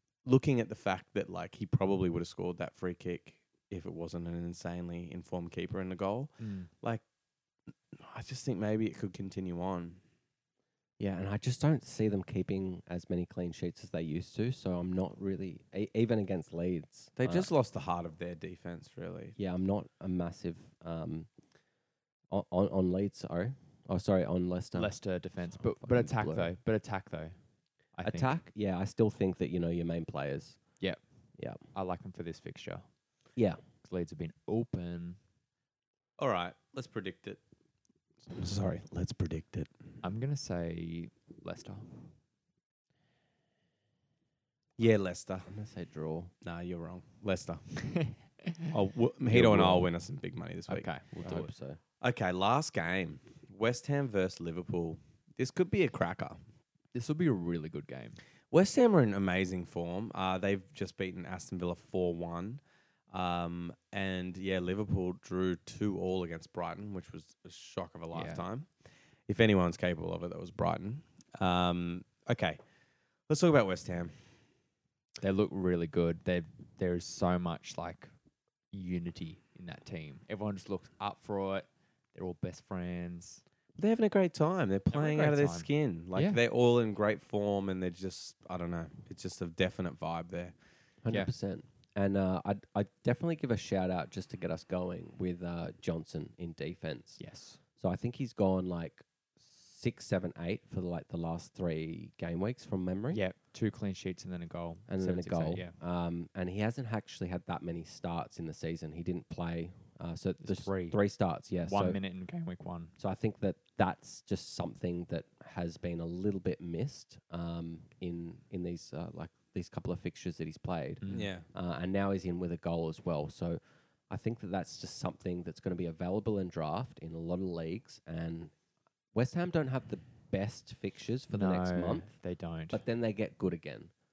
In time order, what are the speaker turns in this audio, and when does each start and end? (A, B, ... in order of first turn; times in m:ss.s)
0:00.2-0:07.0 A
0:06.4-0:06.7 B
0:07.9-0:10.0 A
0:11.0-0:17.5 C
0:17.2-0:19.4 A
0:19.4-0:21.3 C
0:22.3-0:26.5 C
0:24.7-0:27.4 B
0:28.0-0:28.4 B
0:28.0-0:30.6 C
0:31.7-0:32.8 B
0:33.8-0:35.2 B
0:36.2-0:37.4 A
0:38.2-0:39.7 A
0:40.0-0:42.1 B
0:44.8-0:45.5 A
0:45.5-0:46.3 C
0:46.4-0:47.7 A
0:47.9-0:48.6 B
0:48.7-0:50.9 A
0:49.3-0:49.9 C
0:50.7-0:51.5 B
0:51.2-0:51.8 C
0:52.0-0:56.4 A
0:56.9-0:58.2 B
0:58.5-1:08.7 A
1:08.1-1:08.4 B
1:09.3-1:12.6 A
1:13.3-1:14.2 A
1:15.2-1:18.1 B
1:18.7-1:23.4 B
1:23.8-1:30.5 A
1:24.9-1:26.4 B
1:31.0-1:37.2 C
1:37.2-1:37.6 B
1:37.8-1:43.2 C
1:43.1-1:45.8 B
1:44.9-1:52.0 C
1:50.4-1:51.0 B
1:51.6-1:52.9 B
1:53.0-2:08.5 C
2:01.0-2:01.3 B
2:01.1-2:01.5 A
2:09.1-2:12.1 C
2:11.3-2:12.8 B
2:12.7-2:13.9 C